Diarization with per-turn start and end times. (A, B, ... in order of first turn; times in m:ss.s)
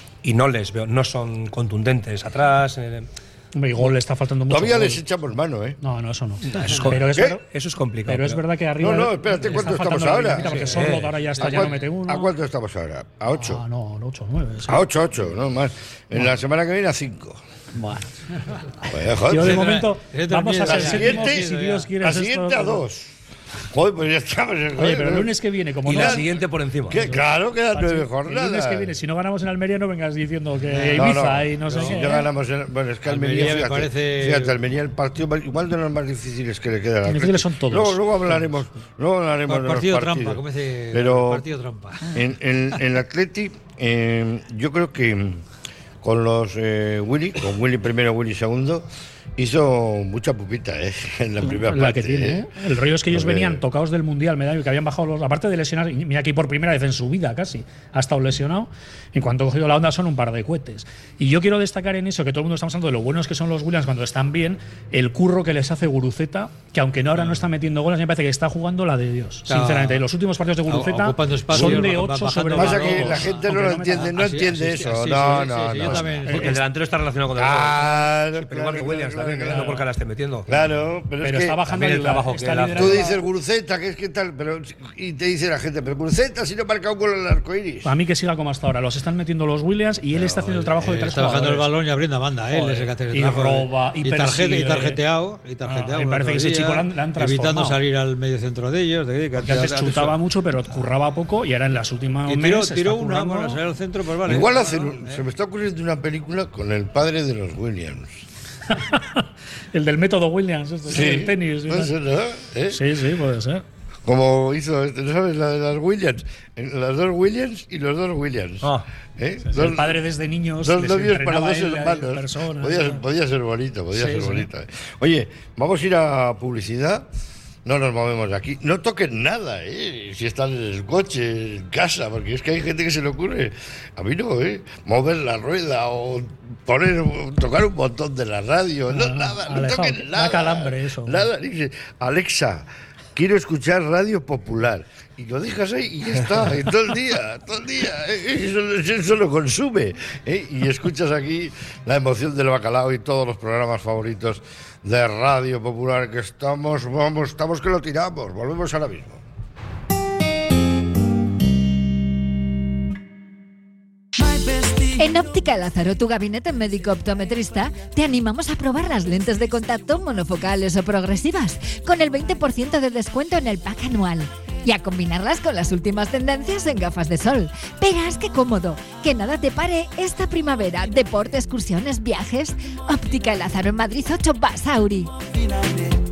0:00.2-0:03.1 A
0:03.6-0:05.0 B
0:04.5-0:05.8 C
0:05.8-0:07.4 B
0:06.5-0:08.4 A
0:08.1-0:12.3 B
0:08.8-0:10.7 C
0:10.6-0:11.2 A
0:11.4-0:11.8 D
0:11.4-0:13.6 C
0:13.3-0:14.8 B
0:14.7-0:17.4 C
0:18.8-0:19.8 C
0:19.2-0:22.9 B
0:19.3-0:21.9 D
0:20.6-0:23.1 C
0:23.7-0:25.3 C
0:24.8-0:26.3 B
0:25.9-0:27.0 A
0:25.9-0:28.9 C
0:26.9-0:32.3 B
0:30.7-0:31.1 D
0:31.0-0:41.4 C
0:31.7-0:32.0 D
0:33.0-0:34.6 D
0:37.0-0:38.4 B
0:39.5-0:42.2 D
0:42.1-0:45.4 C
0:46.0-0:52.4 C
0:51.4-1:14.1 B
0:53.1-0:53.6 C
1:09.5-1:10.1 D
1:10.7-1:16.6 D
1:12.5-1:16.5 C
1:16.2-1:16.6 B
1:16.3-1:20.5 A
1:17.4-1:19.8 C
1:20.5-1:21.6 C
1:21.2-1:23.2 B
1:21.6-1:23.1 A
1:22.7-1:27.9 C
1:27.8-1:31.7 B
1:30.2-1:40.2 D
1:32.5-1:35.0 B
1:35.6-1:37.8 B
1:39.4-1:43.6 B
1:42.3-1:45.2 D
1:44.2-1:48.2 C
1:48.7-1:51.9 B
1:50.9-1:52.8 C
1:52.7-1:53.6 B
1:54.0-2:00.0 C
1:59.5-2:03.0 B
2:00.6-2:07.1 C
2:03.9-2:04.5 B
2:07.6-2:39.2 C
2:18.9-2:21.3 B
2:44.9-3:05.1 E